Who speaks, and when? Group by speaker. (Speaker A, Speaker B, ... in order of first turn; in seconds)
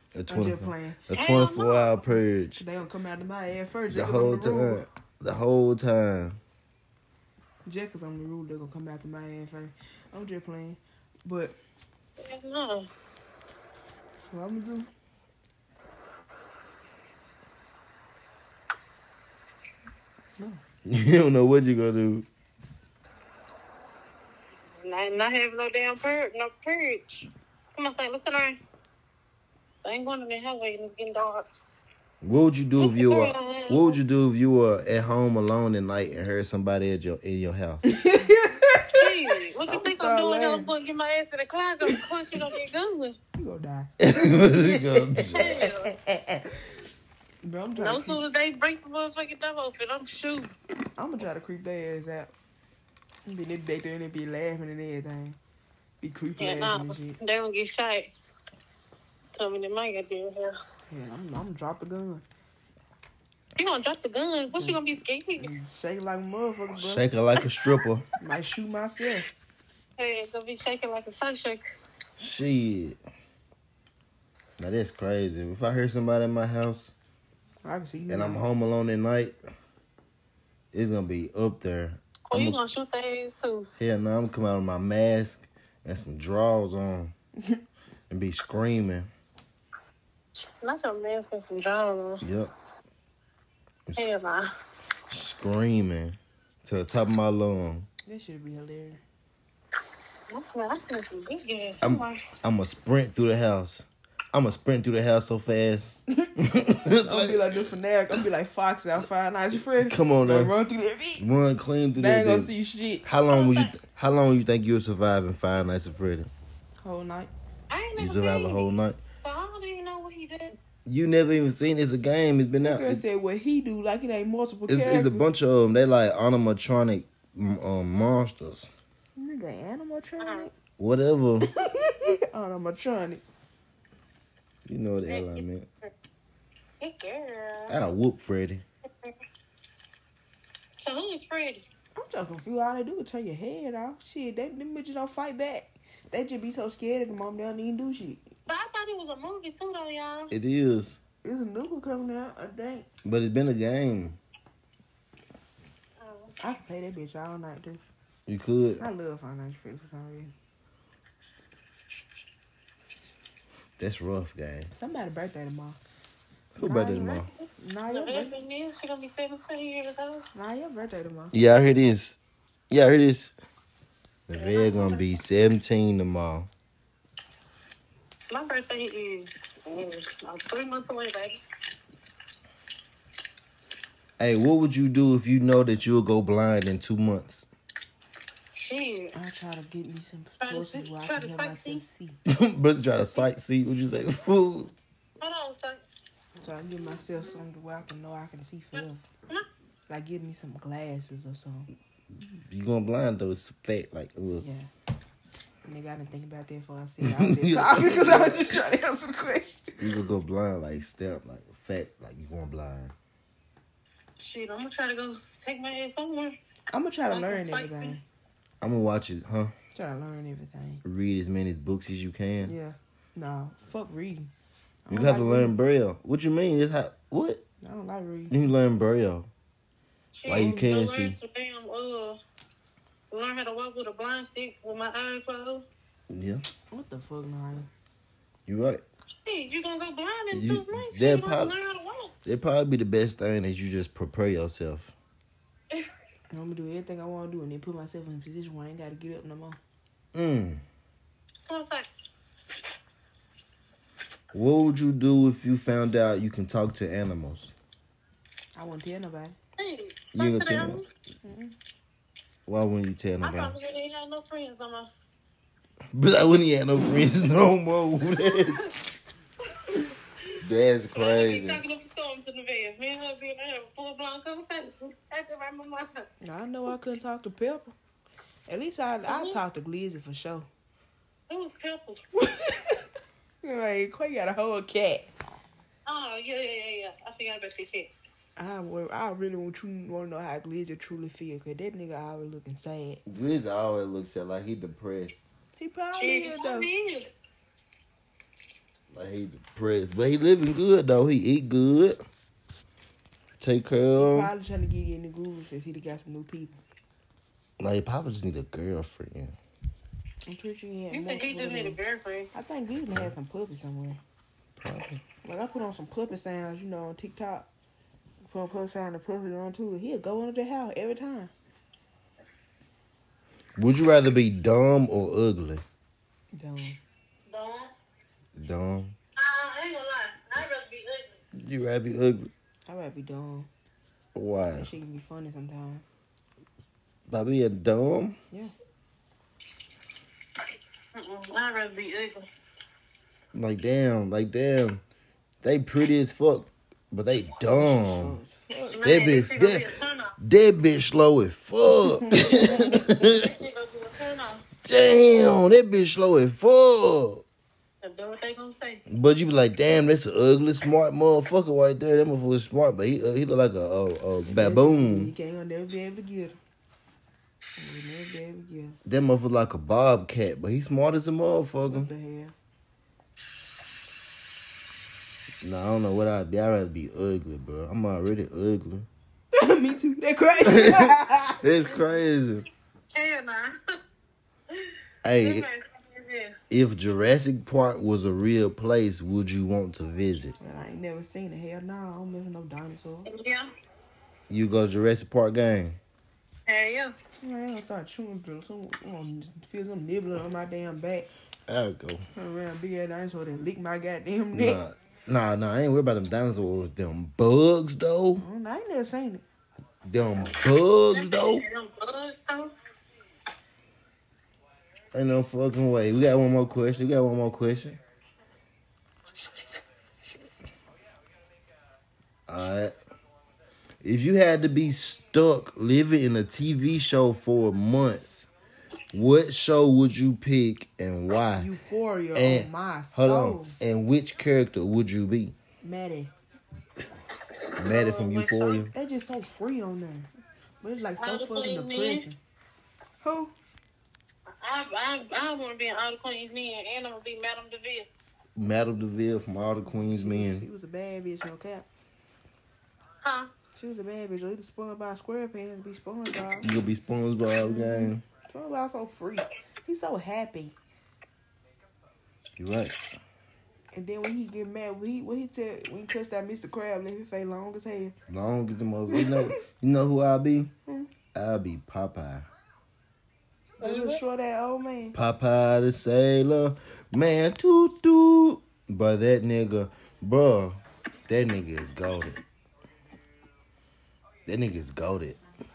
Speaker A: 0.1-2.6, 3.9-6.4, 20.9-22.3, 32.2-37.8, 44.0-45.6, 66.7-68.0, 72.2-73.0, 74.6-76.9, 78.1-79.4, 80.7-82.6, 83.8-87.1, 88.1-89.1, 92.2-92.5, 95.1-97.9, 101.8-107.6, 109.8-110.5, 111.2-112.5, 113.0-116.3, 118.0-119.0, 120.9-123.0, 124.7-128.7, 130.8-131.5, 134.7-135.7, 137.7-138.6, 150.3-151.0, 153.0-154.2, 158.3-158.9, 163.8-164.7, 166.6-167.3, 171.3-172.2, 172.7-173.3, 174.3-176.5, 184.2-187.5, 192.3-194.7, 202.2-204.4, 207.0-208.6, 209.8-212.9, 218.6-219.5, 220.8-222.6, 224.9-227.4, 228.3-229.3, 230.3-231.2, 236.1-236.4, 238.5-238.8, 240.3-241.5, 242.2-244.9, 250.1-250.6, 254.3-257.5, 260.1-260.8, 262.5-263.5, 265.9-268.8, 270.4-271.6, 293.1-295.2, 298.9-302.0, 303.4-304.3, 307.6-309.3, 314.6-315.0, 323.6-325.6, 328.4-328.9, 331.4-332.3, 334.1-334.7, 337.1-338.2, 343.3-344.8, 345.4-348.2, 348.8-353.3, 354.6-357.2, 358.9-365.1, 368.9-371.9, 375.4-378.9, 380.4-382.5, 385.0-385.5, 386.5-390.4, 394.3-395.8, 401.5-402.0, 404.3-408.2, 409.8-411.4, 414.9-417.8, 422.3-422.7, 423.8-428.3, 428.9-431.5, 432.1-435.3, 437.6-438.7, 448.4-450.5, 456.4-458.0, 462.4-462.7, 468.1-470.5, 471.1-472.3, 474.9-482.2, 484.3-485.2
Speaker B: 0.3-1.4, 2.6-4.8, 7.7-11.6, 14.3-14.9, 37.9-40.7, 43.4-46.5, 47.4-48.2, 51.0-52.3, 53.3-55.4, 56.0-57.2, 60.9-62.2, 64.5-64.8, 65.4-67.1, 68.2-69.3, 77.6-78.4, 98.1-99.0, 106.9-111.2, 112.0-113.0, 116.8-117.3, 122.6-125.3, 129.2-130.5, 131.4-133.2, 142.0-148.2, 151.2-152.9, 156.4-157.8, 158.8-160.3, 164.7-165.8, 166.6-168.4, 170.3-171.4, 189.1-192.2, 196.4-199.0, 199.9-201.7, 204.4-204.7, 205.7-209.9, 216.7-218.0, 219.8-220.8, 222.4-224.3, 224.9-225.5, 227.6-228.3, 236.7-237.7, 246.3-249.6, 258.6-259.4, 261.2-261.6, 276.2-277.7, 278.5-280.5, 282.2-282.9, 283.4-285.1, 288.4-293.0, 295.6-296.7, 304.0-306.6, 310.2-311.8, 312.3-314.0, 315.2-317.5, 318.2-321.3, 326.3-326.8, 332.7-333.5, 334.5-335.8, 347.4-349.0, 351.8-352.8, 364.3-366.4, 367.6-368.8, 371.6-372.3, 379.3-381.4, 390.4-393.1, 397.2-401.1, 402.1-404.6, 408.2-409.2, 431.3-433.6, 435.6-436.1, 438.7-440.1, 440.6-442.2, 443.0-443.3, 449.6-451.7, 453.6-456.5, 457.3-460.6, 463.7-467.9, 468.9-469.3, 473.6-475.0
Speaker C: 1.1-2.0, 12.2-12.9, 24.8-28.6, 29.8-31.5, 32.8-34.0, 38.9-43.2, 45.3-45.9, 47.8-50.5, 56.4-58.1, 59.4-60.6, 63.6-65.5, 70.0-71.6, 82.3-83.7, 90.6-92.2, 94.0-94.5, 100.3-102.2, 113.3-113.7, 117.7-120.6, 130.2-130.5, 135.1-135.4, 136.8-137.8, 140.8-141.6, 148.5-150.3, 156.0-156.4, 167.9-170.2, 174.3-175.1, 178.3-181.4, 188.6-189.1, 190.4-191.8, 195.2-195.8, 198.8-199.5, 214.2-216.4, 217.1-218.0, 230.2-232.2, 233.1-235.7, 239.2-242.1, 251.5-251.9, 259.6-260.9, 263.2-264.9, 268.2-268.5, 269.4-269.9, 270.9-276.1, 279.1-279.4, 281.3-282.0, 285.9-287.9, 296.0-297.1, 310.9-312.3, 327.3-327.7, 329.2-331.2, 341.0-342.3, 348.7-350.1, 353.1-354.5, 357.8-358.8, 382.9-383.6, 384.6-386.4, 393.1-393.5, 396.5-396.9, 410.9-412.5, 437.3-438.7, 441.0-442.1, 444.4-447.9, 453.0-453.3, 473.6-474.0